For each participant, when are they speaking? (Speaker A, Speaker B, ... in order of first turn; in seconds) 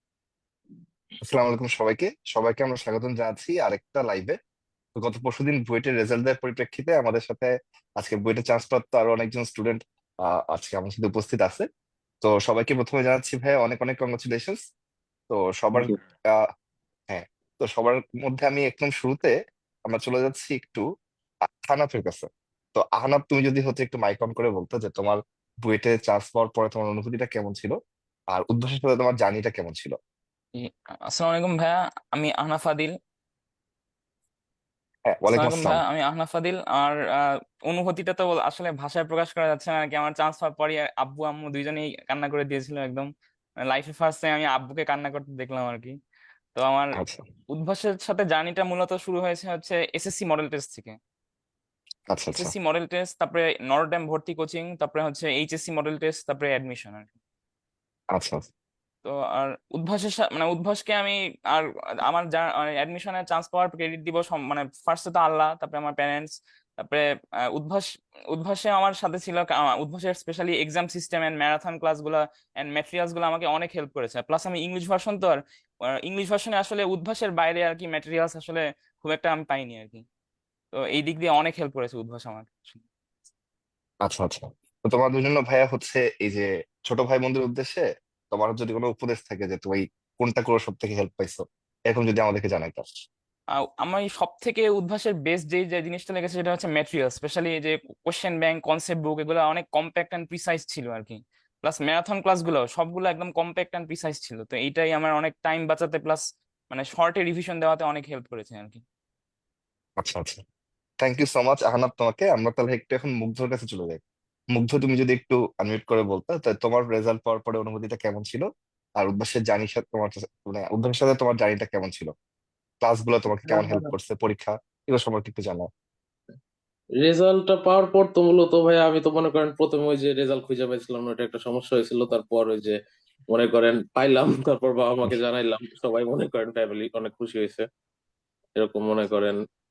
Speaker A: 1.2-4.3, 5.0-11.6, 12.2-14.6, 15.3-16.4, 17.1-19.3, 19.9-20.8, 21.6-27.8, 28.3-29.9, 35.0-35.8, 47.0-47.2, 52.1-52.5, 58.1-58.5, 84.0-92.8, 110.0-110.4, 111.0-114.0, 114.5-118.5, 119.0-122.1, 122.8-125.7
Speaker B: 30.6-32.9, 35.3-46.0, 46.5-47.0, 47.5-51.0, 52.4-57.1, 59.0-80.0, 80.7-82.8, 93.5-108.8
Speaker C: 123.5-123.9, 127.0-137.7, 138.5-139.4